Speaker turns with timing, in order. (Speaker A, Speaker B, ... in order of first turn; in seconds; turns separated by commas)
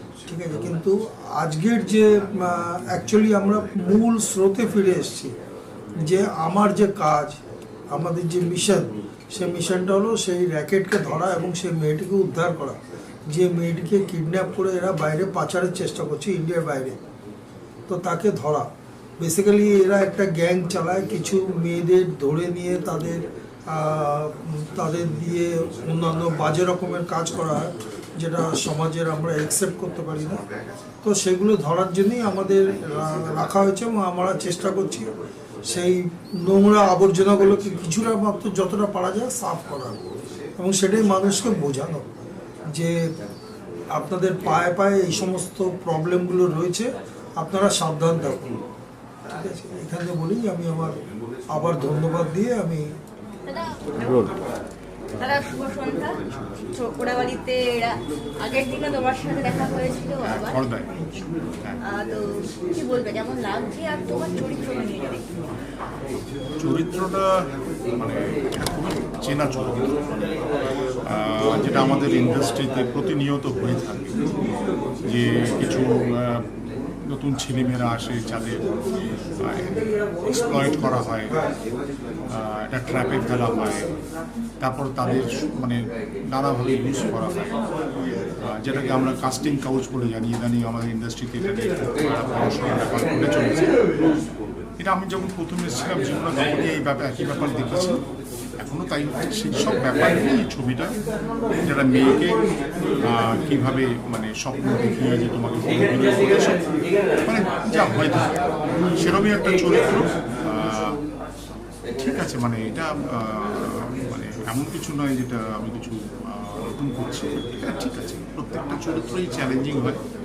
Speaker A: 0.2-5.3, Speaker A: 6.0-7.4, Speaker A: 7.9-12.8, Speaker A: 13.3-16.9, Speaker A: 17.9-18.7, Speaker A: 19.2-30.4, Speaker A: 31.0-35.1, Speaker A: 35.7-40.0, Speaker A: 40.6-42.2, Speaker A: 42.7-43.1, Speaker A: 43.9-48.5, Speaker A: 49.3-51.0, Speaker A: 51.5-52.9, Speaker B: 53.5-54.2, Speaker B: 55.2-60.6, Speaker C: 60.2-60.9, Speaker A: 61.0-61.2, Speaker B: 61.9-62.2, Speaker B: 62.7-65.3, Speaker C: 66.6-67.3, Speaker C: 67.9-70.4, Speaker C: 71.0-74.3, Speaker C: 75.0-78.7, Speaker C: 79.4-81.5, Speaker C: 82.3-83.9, Speaker C: 84.6-87.5, Speaker C: 88.3-93.8, Speaker C: 94.8-98.0, Speaker C: 98.6-101.0, Speaker C: 101.6-102.4, Speaker C: 103.0-106.7, Speaker C: 107.2-111.0, Speaker C: 111.9-120.0